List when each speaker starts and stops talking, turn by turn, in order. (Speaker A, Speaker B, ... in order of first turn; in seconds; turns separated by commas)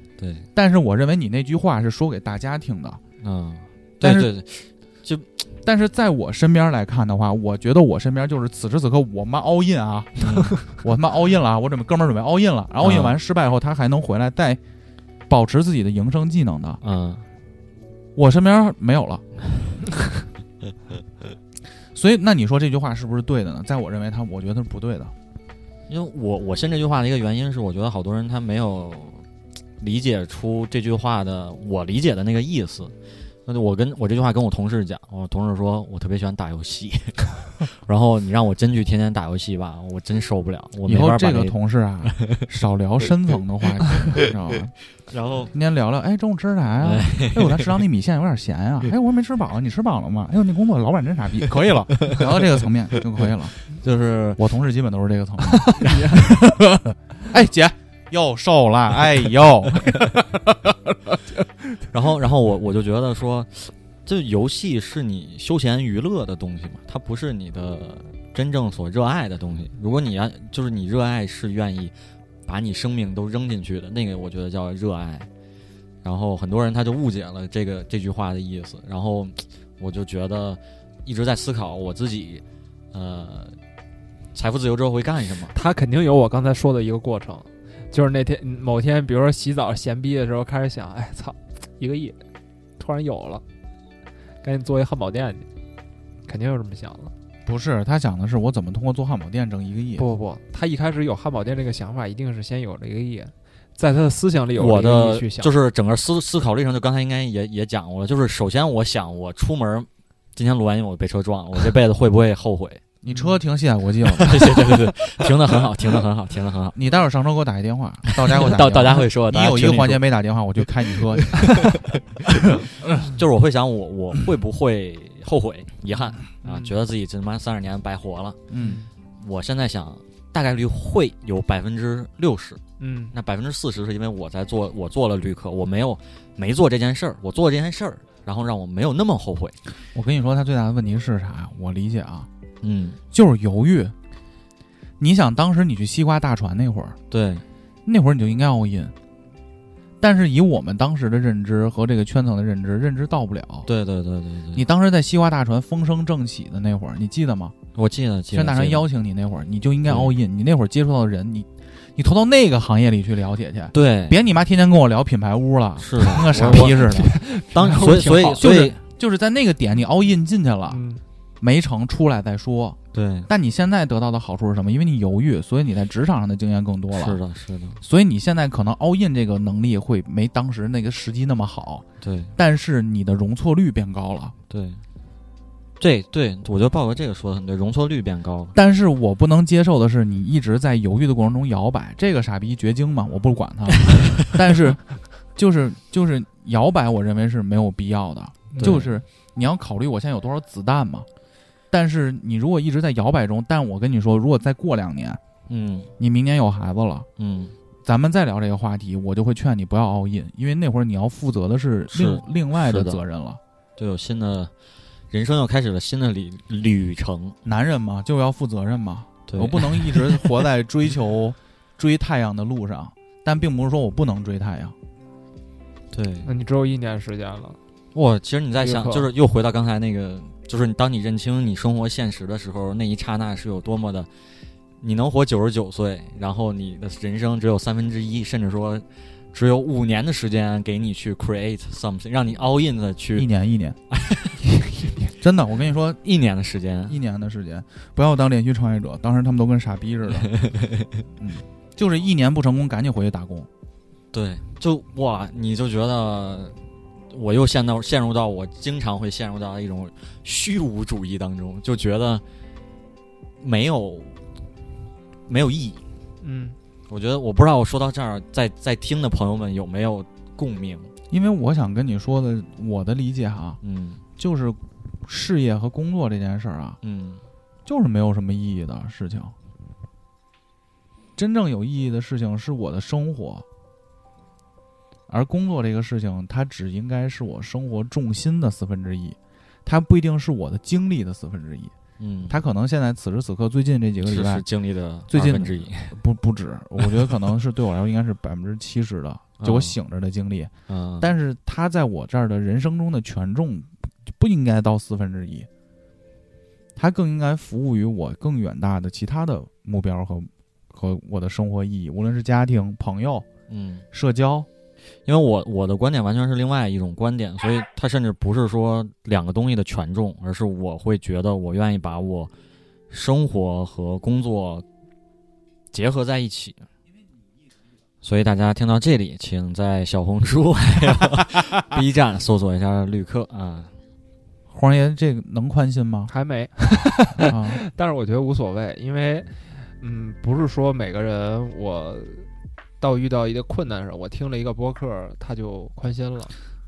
Speaker A: 0.2-0.5, Speaker B: 0.5-3.0, Speaker A: 3.2-5.5, Speaker B: 4.0-4.3, Speaker B: 5.6-14.6, Speaker A: 10.2-10.6, Speaker A: 12.8-13.2, Speaker B: 15.3-16.8, Speaker A: 16.8-17.2, Speaker B: 18.1-19.2, Speaker B: 21.9-25.1, Speaker A: 25.9-29.2, Speaker A: 29.8-32.9, Speaker A: 33.5-42.4, Speaker B: 40.9-44.7, Speaker A: 45.1-45.5, Speaker B: 45.5-53.6, Speaker A: 46.8-47.8, Speaker A: 53.7-54.4, Speaker B: 54.4-61.4, Speaker C: 55.6-56.3, Speaker A: 61.9-71.9, Speaker A: 72.4-75.3, Speaker A: 76.0-83.5, Speaker A: 84.3-85.5, Speaker C: 85.5-92.2, Speaker C: 92.8-93.4, Speaker C: 94.4-95.5, Speaker C: 96.3-97.1, Speaker B: 97.5-100.0, Speaker C: 100.0-105.5, Speaker A: 104.5-112.8, Speaker B: 113.0-114.5, Speaker C: 113.1-113.4, Speaker A: 114.2-116.8, Speaker B: 116.7-121.7, Speaker A: 118.1-120.1, Speaker A: 121.2-128.4, Speaker C: 126.4-126.7, Speaker B: 128.5-128.8, Speaker C: 128.6-128.9, Speaker A: 129.2-132.6, Speaker C: 132.8-133.1, Speaker A: 133.1-139.6, Speaker B: 139.9-142.3, Speaker A: 142.6-143.0, Speaker B: 143.1-143.9, Speaker B: 145.0-147.0, Speaker A: 147.1-147.4, Speaker B: 147.8-148.9, Speaker B: 150.0-153.7, Speaker A: 153.7-154.7, Speaker B: 154.5-157.5, Speaker A: 157.7-158.9, Speaker B: 158.3-167.1, Speaker A: 159.8-160.2, Speaker A: 163.7-164.2, Speaker A: 165.8-168.8, Speaker C: 166.2-168.5, Speaker B: 168.4-170.8, Speaker C: 170.7-171.0, Speaker B: 171.4-177.2, Speaker A: 172.9-173.3, Speaker A: 176.9-177.8, Speaker B: 177.8-181.8, Speaker A: 182.0-182.3, Speaker B: 182.4-184.3, Speaker A: 184.5-184.8, Speaker A: 185.8-188.5, Speaker B: 188.5-194.8, Speaker B: 195.3-201.1, Speaker C: 198.5-198.8, Speaker A: 198.6-198.9, Speaker B: 201.7-205.2, Speaker A: 205.5-205.9, Speaker B: 206.0-207.1, Speaker A: 207.2-207.5, Speaker B: 207.8-213.4, Speaker A: 211.9-213.0, Speaker A: 213.8-214.5, Speaker A: 215.1-217.3, Speaker B: 217.4-224.7, Speaker A: 219.3-220.4, Speaker A: 225.9-226.3, Speaker C: 226.2-227.6, Speaker A: 227.9-234.1, Speaker C: 228.6-229.1, Speaker A: 234.8-243.3, Speaker B: 243.1-243.8, Speaker A: 243.9-244.4, Speaker B: 245.2-246.0, Speaker A: 246.0-247.0, Speaker B: 246.9-250.3, Speaker A: 250.1-250.9, Speaker B: 251.2-253.5, Speaker A: 254.1-256.6, Speaker A: 257.1-262.2, Speaker A: 263.4-264.1, Speaker A: 265.3-265.8, Speaker C: 266.2-266.6, Speaker A: 266.9-270.9, Speaker B: 271.1-273.6, Speaker A: 273.6-274.0, Speaker B: 274.2-276.8, Speaker A: 276.8-277.2, Speaker B: 277.6-279.3, Speaker B: 281.1-283.4, Speaker B: 285.1-291.7, Speaker A: 292.0-292.4, Speaker B: 292.3-294.4, Speaker A: 294.0-295.9, Speaker B: 295.1-305.5, Speaker A: 296.8-297.1, Speaker A: 299.4-299.8, Speaker A: 300.7-301.1, Speaker B: 306.8-313.3, Speaker A: 313.5-313.8, Speaker B: 313.9-314.5, Speaker A: 315.1-322.3, Speaker A: 322.9-324.6, Speaker A: 325.7-326.6, Speaker A: 328.0-333.7, Speaker B: 334.5-336.1, Speaker C: 336.1-342.3, Speaker B: 337.3-337.6, Speaker C: 342.8-346.3